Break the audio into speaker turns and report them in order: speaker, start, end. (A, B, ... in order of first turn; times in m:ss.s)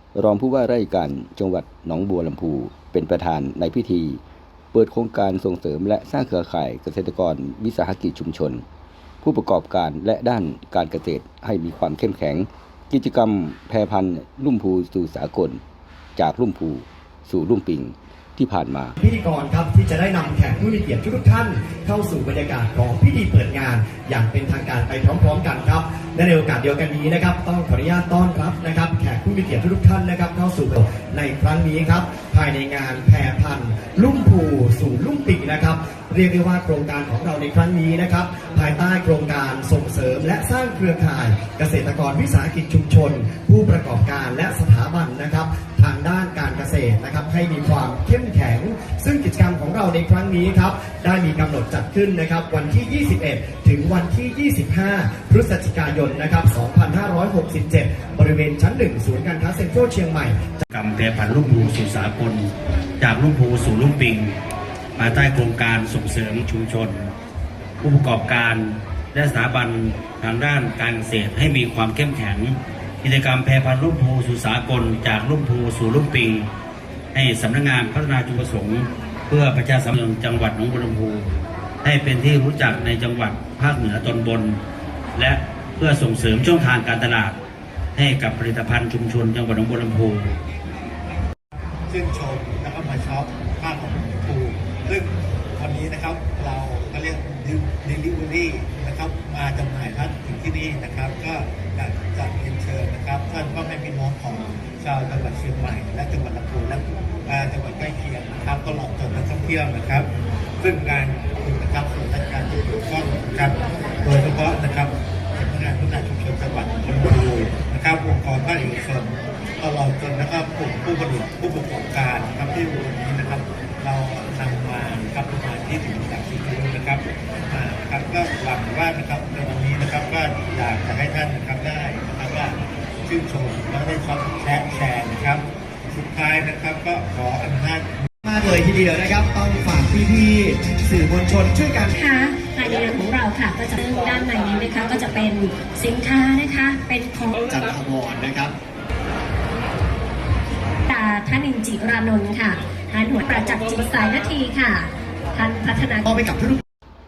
0:00.2-0:04.2 A
0:04.7-0:08.6 A
0:09.2-0:15.6 A
0:16.2-0:19.0 A
0:19.0-1:00.6 B
1:00.7-1:04.4 C
1:05.0-1:07.1 C
1:07.8-1:16.5 C
1:17.1-1:24.6 C
1:25.2-1:27.4 C
1:28.0-1:30.4 C
1:31.9-2:18.1 D
2:18.2-2:21.9 B
2:22.0-2:27.4 E
2:27.4-2:28.6 B
2:30.9-2:36.1 E
2:36.1-2:36.6 B